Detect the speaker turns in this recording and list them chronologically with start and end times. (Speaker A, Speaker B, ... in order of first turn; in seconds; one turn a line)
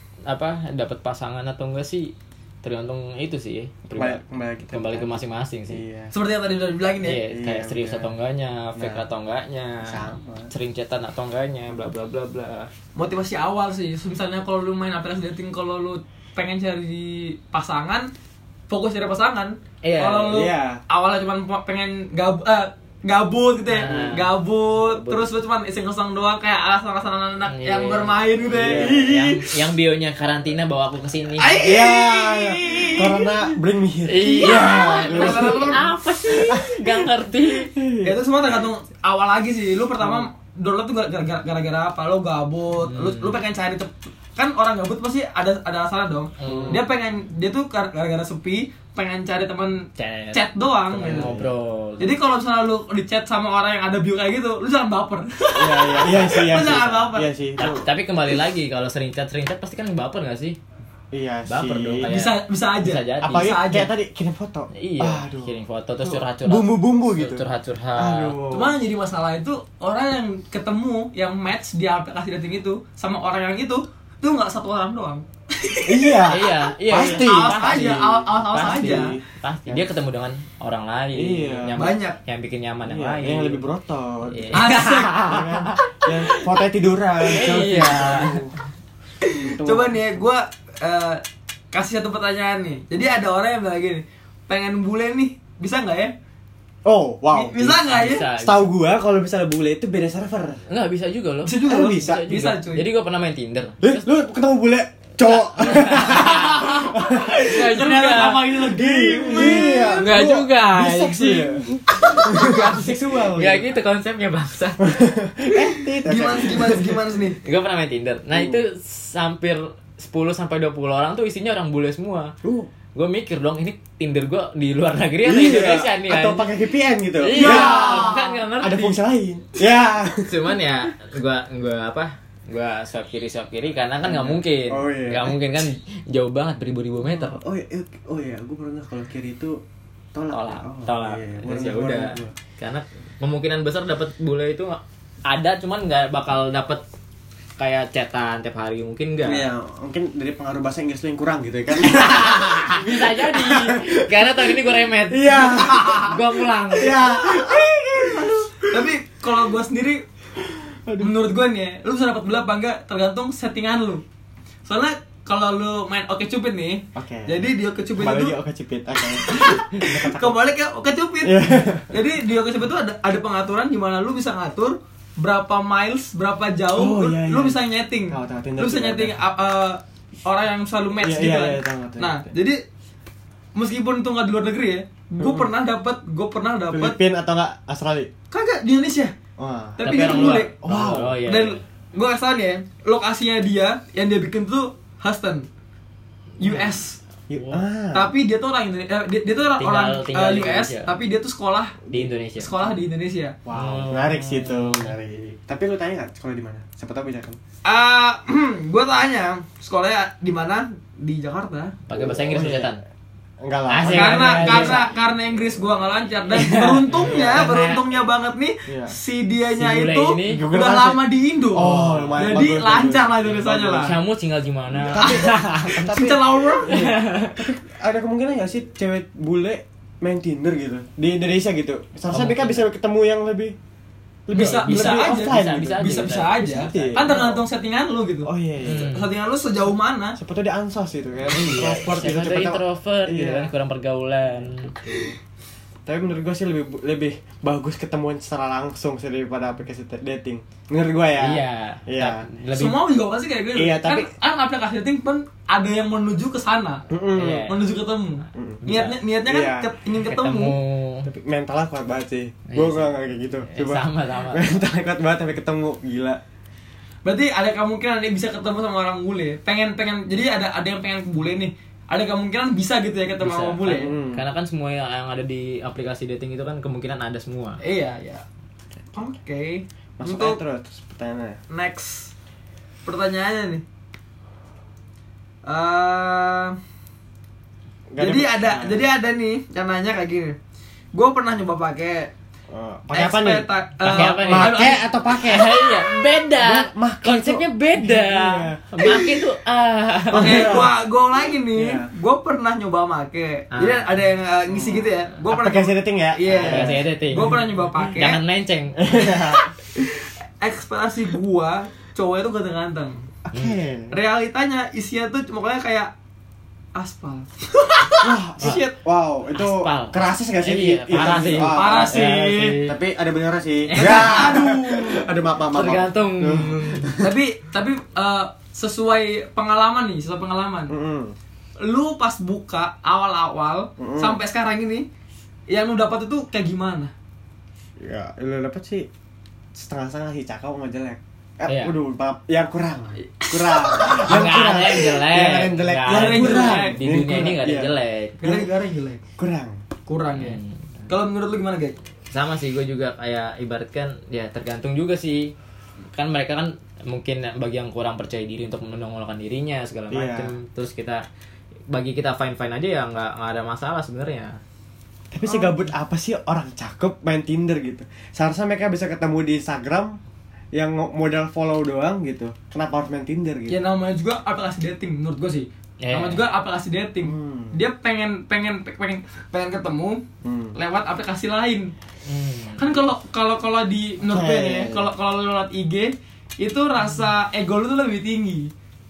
Speaker A: 0.3-5.8
Speaker B: 3.9-6.1
Speaker C: 6.1-7.2
Speaker A: 7.0-12.7
Speaker B: 7.3-8.1
Speaker B: 8.7-9.0
Speaker B: 9.8-10.5
Speaker C: 12.9-18.1
Speaker C: 18.7-29.7
Speaker A: 19.8-20.4
Speaker B: 20.3-20.8
Speaker A: 23.7-25.3
Speaker B: 23.9-24.2
Speaker A: 27.5-31.6
Speaker B: 28.6-29.0
Speaker C: 31.4-33.5
Speaker B: 31.6-37.1
Speaker A: 34.1-37.7
Speaker C: 34.3-35.9
Speaker B: 37.7-38.6
Speaker C: 38.0-51.3
Speaker B: 40.0-40.2
Speaker A: 42.8-43.4
Speaker A: 46.4-46.9
Speaker B: 46.4-46.9
Speaker A: 50.0-52.2
Speaker B: 51.0-51.5
Speaker C: 52.0-57.3
Speaker B: 55.5-57.9
Speaker A: 57.6-60.6
Speaker B: 61.1-62.1
Speaker A: 61.5-63.6
Speaker C: 62.0-63.9
Speaker B: 63.2-67.4
Speaker A: 64.7-68.4
Speaker B: 68.0-68.8
Speaker C: 68.5-76.3
Speaker B: 75.8-79.8
Speaker A: 76.3-83.6
Speaker C: 76.9-79.1
Speaker B: 81.1-81.9
Speaker C: 81.7-82.2
Speaker B: 82.8-88.5
Speaker A: 84.3-86.6
Speaker C: 84.5-85.4
Speaker A: 87.3-88.4
Speaker C: 89.2-96.1
Speaker B: 89.2-90.1
Speaker B: 96.8-97.8
Speaker C: 97.3-98.3
Speaker A: 97.7-98.7
Speaker B: 98.4-100.6
Speaker A: 100.7-104.1
Speaker C: 101.5-102.8
Speaker B: 101.7-102.4
Speaker B: 103.8-107.6
Speaker A: 105.2-106.8
Speaker C: 105.9-110.1
Speaker A: 107.4-108.5
Speaker B: 108.7-113.7
Speaker A: 109.5-111.6
Speaker C: 111.9-112.8
Speaker A: 112.3-114.9
Speaker B: 114.8-116.9
Speaker C: 116.0-117.4
Speaker A: 117.4-122.3
Speaker B: 118.3-118.6
Speaker B: 122.4-122.7
Speaker A: 122.9-126.5
Speaker B: 125.2-130.3
Speaker A: 127.2-129.0
Speaker C: 127.3-128.4
Speaker A: 130.2-137.4
Speaker B: 134.0-135.4
Speaker B: 137.1-139.6
Speaker B: 140.1-142.3
Speaker A: 140.3-146.8
Speaker A: 147.6-149.4
Speaker B: 149.2-158.7
Speaker A: 151.8-157.0
Speaker C: 158.7-160.0
Speaker B: 160.9-161.1
Speaker C: 161.0-164.0
Speaker C: 164.7-168.3
Speaker B: 166.9-167.4
Speaker B: 168.0-170.4
Speaker C: 169.2-182.6
Speaker B: 171.2-171.9
Speaker B: 176.7-179.2
Speaker B: 181.0-182.3
Speaker C: 183.5-187.0
Speaker B: 185.2-185.5
Speaker B: 186.7-188.1
Speaker C: 188.3-189.1
Speaker B: 189.4-191.2
Speaker C: 189.8-190.5
Speaker A: 189.8-191.6
Speaker C: 191.2-195.5
Speaker C: 196.4-197.0
Speaker B: 197.3-198.1
Speaker A: 197.4-197.6
Speaker C: 197.9-201.8
Speaker A: 199.6-200.9
Speaker A: 201.9-202.6
Speaker C: 202.4-203.3
Speaker B: 203.4-207.4
Speaker A: 203.5-204.9
Speaker C: 207.6-211.8
Speaker A: 211.9-212.8
Speaker B: 211.9-212.8
Speaker B: 213.4-214.9
Speaker A: 213.7-214.8
Speaker C: 213.8-224.0
Speaker A: 216.3-218.0
Speaker B: 216.9-217.5
Speaker B: 218.7-218.9
Speaker A: 219.5-220.4
Speaker B: 220.2-223.8
Speaker A: 221.6-222.4
Speaker A: 223.7-226.1
Speaker B: 224.7-226.2
Speaker C: 225.0-226.9
Speaker A: 226.7-227.5
Speaker B: 226.7-233.6
Speaker A: 232.1-232.7
Speaker B: 234.3-237.4
Speaker A: 234.3-237.2
Speaker C: 234.3-240.2
Speaker B: 238.2-238.9
Speaker A: 238.6-239.1
Speaker B: 240.2-243.5
Speaker A: 241.3-244.7
Speaker B: 244.8-245.1
Speaker B: 245.8-252.2
Speaker A: 251.2-252.8
Speaker C: 252.5-256.9
Speaker B: 253.5-254.1
Speaker B: 256.9-257.5
Speaker A: 257.1-257.8
Speaker C: 257.4-260.6
Speaker B: 258.3-258.6
Speaker A: 258.6-259.0
Speaker B: 259.2-259.7
Speaker A: 260.0-261.1
Speaker B: 261.0-266.2
Speaker A: 262.5-262.9
Speaker A: 263.5-264.5
Speaker C: 267.0-273.9
Speaker A: 273.2-277.6
Speaker B: 273.7-274.2
Speaker C: 277.6-278.2
Speaker C: 278.9-280.4
Speaker B: 280.0-281.4
Speaker C: 281.5-282.1
Speaker C: 282.8-283.6
Speaker C: 285.4-286.6
Speaker B: 287.9-288.8
Speaker C: 288.0-290.4
Speaker C: 290.9-292.1
Speaker B: 292.5-299.2
Speaker C: 292.9-294.8
Speaker A: 293.8-300.7
Speaker B: 300.1-300.7
Speaker C: 300.1-308.2
Speaker B: 301.5-301.9
Speaker A: 303.5-304.0
Speaker B: 304.5-307.4
Speaker A: 306.3-309.1
Speaker B: 308.8-309.9
Speaker C: 310.4-313.1
Speaker B: 313.3-313.9
Speaker C: 313.9-315.9
Speaker C: 316.7-318.8
Speaker B: 318.0-322.1
Speaker A: 319.3-322.8
Speaker C: 321.4-322.6
Speaker B: 322.6-327.1
Speaker A: 323.7-324.4
Speaker C: 323.8-325.1
Speaker A: 325.5-326.9
Speaker C: 327.0-330.7
Speaker B: 330.7-331.1
Speaker C: 331.6-334.9
Speaker B: 333.8-334.1
Speaker C: 335.5-336.9
Speaker B: 337.8-338.9
Speaker B: 339.5-347.7
Speaker A: 341.5-341.7
Speaker C: 343.2-344.1
Speaker A: 343.8-348.4
Speaker C: 345.8-346.8
Speaker C: 348.2-349.0
Speaker B: 349.2-349.6
Speaker C: 349.9-351.8
Speaker A: 350.1-350.7
Speaker A: 352.1-355.3
Speaker A: 355.9-361.0
Speaker B: 359.9-360.3
Speaker A: 361.7-364.4
Speaker B: 365.1-370.0
Speaker B: 370.5-373.6
Speaker C: 373.5-380.0
Speaker A: 375.8-376.2
Speaker B: 377.0-377.6
Speaker B: 380.2-380.5
Speaker C: 380.6-381.7
Speaker A: 382.0-382.6
Speaker C: 382.6-388.5
Speaker B: 384.0-384.9